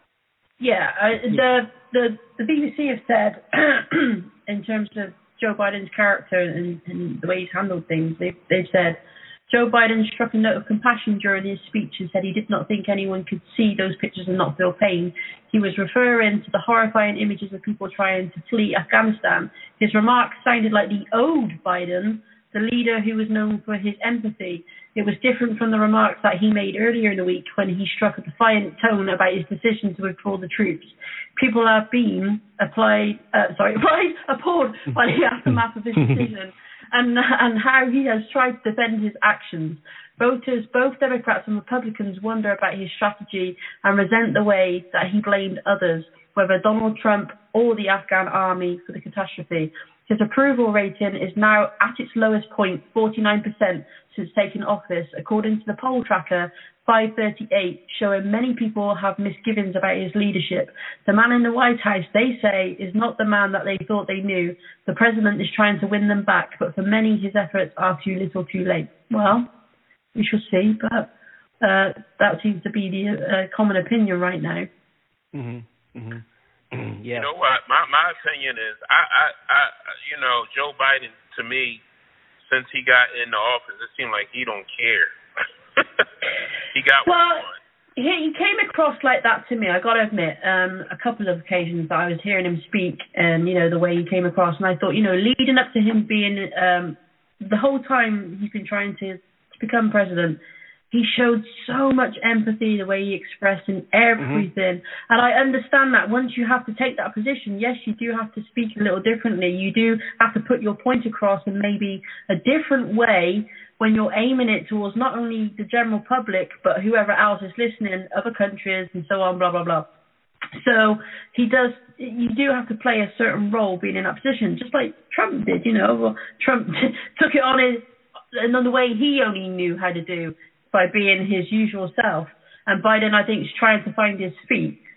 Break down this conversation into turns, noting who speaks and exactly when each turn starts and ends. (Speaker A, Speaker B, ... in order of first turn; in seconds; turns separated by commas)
Speaker A: 0.6-69.5, Speaker B: 35.5-36.3, Speaker A: 70.2-71.1, Speaker A: 71.6-74.7, Speaker B: 75.3-77.3, Speaker C: 77.1-81.8, Speaker C: 82.5-85.1, Speaker C: 86.7-87.5, Speaker A: 87.0-87.5, Speaker A: 88.0-100.4, Speaker A: 100.9-119.8, Speaker B: 104.2-104.5, Speaker A: 120.5-134.8